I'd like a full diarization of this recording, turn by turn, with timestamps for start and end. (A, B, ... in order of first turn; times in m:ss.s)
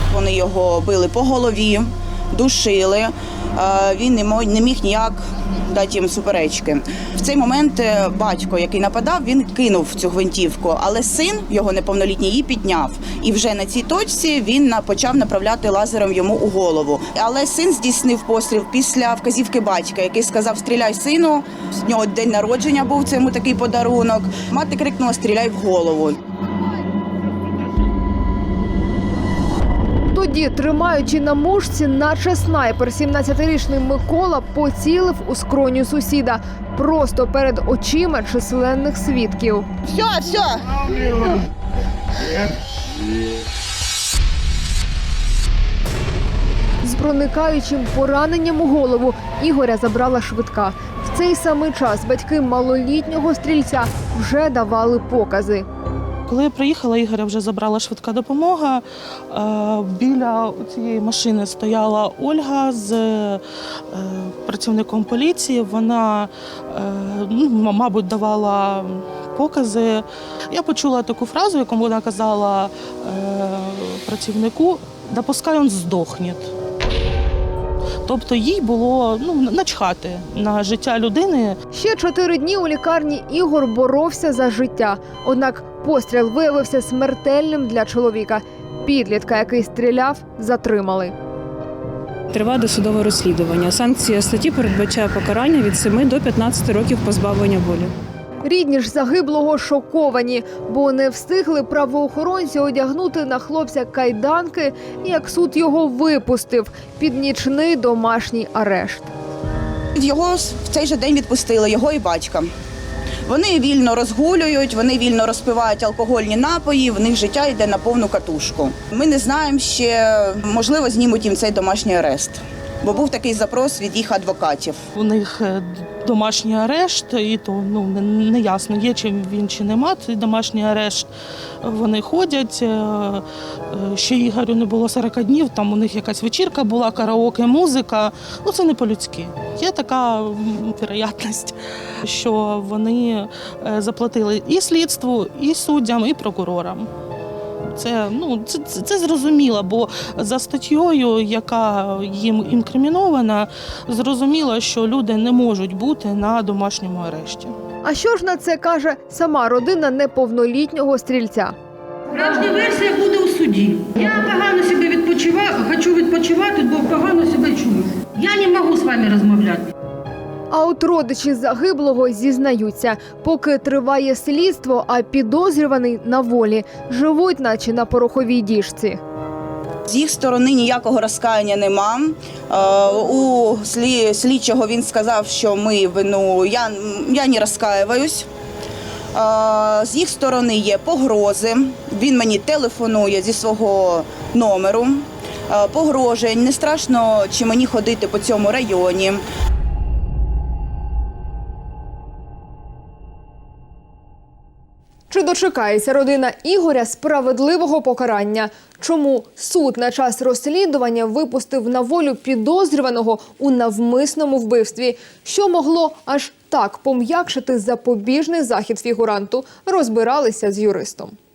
0:00.1-0:26.2 A
0:30.1-0:39.7 B
0:39.9-0:41.4 A
0:46.8-0:55.7 B
0:56.3-1:16.5 C
1:18.0-1:21.6 C
1:21.7-1:31.2 B
1:32.3-1:37.9 D
1:38.4-1:49.1 B
1:50.0-1:52.5 A
1:53.3-2:04.8 A
2:05.0-2:11.1 C
2:11.6-2:26.9 C
2:27.7-2:37.6 C
2:37.8-2:41.6 B
2:42.1-2:49.7 E
2:50.5-2:59.0 B
2:59.9-3:08.3 A
3:09.2-3:19.2 A
3:25.1-3:41.2 B